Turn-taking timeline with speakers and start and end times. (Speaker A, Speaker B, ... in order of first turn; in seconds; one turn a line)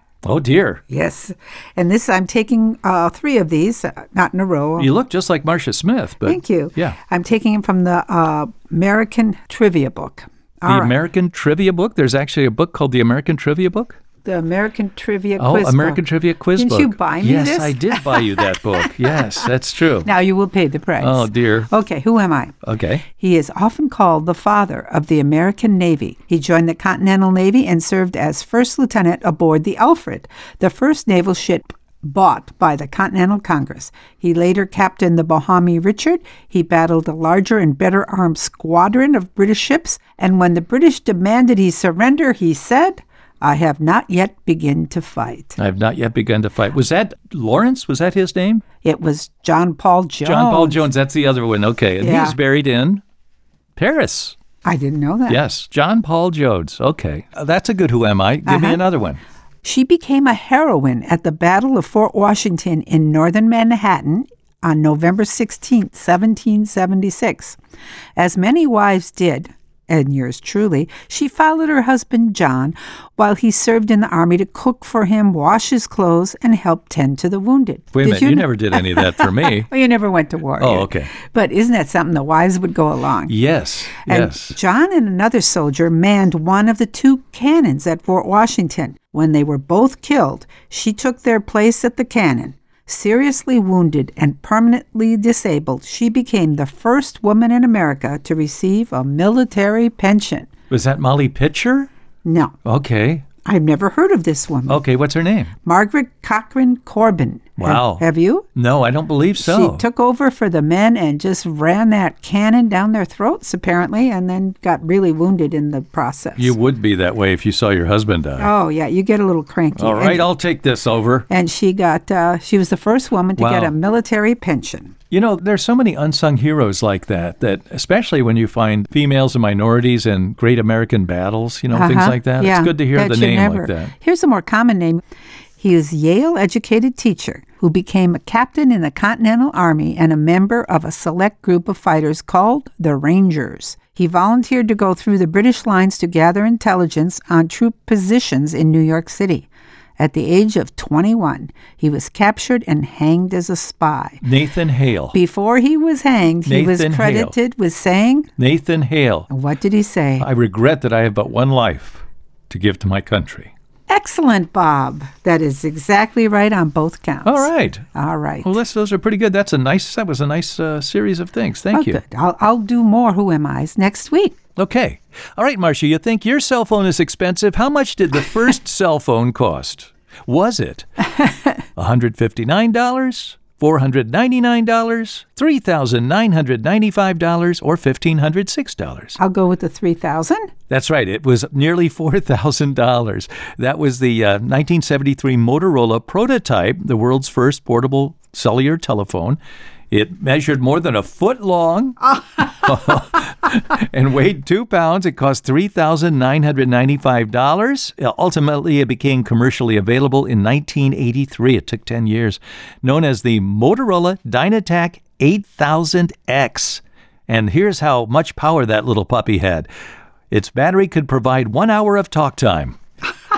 Speaker A: 0.2-0.8
Speaker B: 0.9-4.9
Speaker A: 4.8-7.0
Speaker B: 6.2-10.9
Speaker A: 10.7-14.0
Speaker B: 14.2-16.0
Speaker A: 15.4-20.1
Speaker B: 16.6-18.9
Speaker B: 20.0-22.5
Speaker A: 21.0-21.7
Speaker A: 22.6-23.0
Speaker B: 23.1-45.6
Speaker A: 45.6-48.6
Speaker B: 48.8-50.8
Speaker A: 50.2-53.0
Speaker B: 52.0-52.4
Speaker A: 53.8-54.4
Speaker B: 54.6-55.4
Speaker A: 55.3-59.2
Speaker B: 58.5-58.8
Speaker B: 59.6-67.6
Speaker B: 68.2-83.3
Speaker A: 77.9-79.7
Speaker A: 80.6-81.1
Speaker A: 83.3-84.5
Speaker B: 84.0-100.5
Speaker A: 100.7-101.9
Speaker B: 102.2-102.5
Speaker A: 102.6-103.2
Speaker B: 103.4-104.8
Speaker A: 104.7-105.5
Speaker B: 105.6-108.4
Speaker A: 107.6-108.0
Speaker A: 108.5-109.8
Speaker B: 109.4-116.5
Speaker A: 116.4-118.5
Speaker B: 118.4-120.3
Speaker A: 119.8-121.3
Speaker B: 121.3-124.9
Speaker A: 123.4-123.7
Speaker A: 125.1-133.9
Speaker B: 131.7-135.0
Speaker B: 135.6-149.5
Speaker B: 150.0-154.2
Speaker A: 154.2-155.1
Speaker B: 155.1-158.3
Speaker A: 156.4-157.3
Speaker A: 158.4-159.3
Speaker B: 159.3-160.2
Speaker A: 160.2-163.5
Speaker B: 163.9-168.5
Speaker A: 167.2-167.9
Speaker A: 168.4-172.0
Speaker B: 171.7-174.3
Speaker A: 174.6-181.0
Speaker B: 181.2-181.5
Speaker A: 181.8-189.2
Speaker B: 189.2-190.5
Speaker A: 190.7-199.4
Speaker A: 199.9-219.7
Speaker A: 220.3-222.8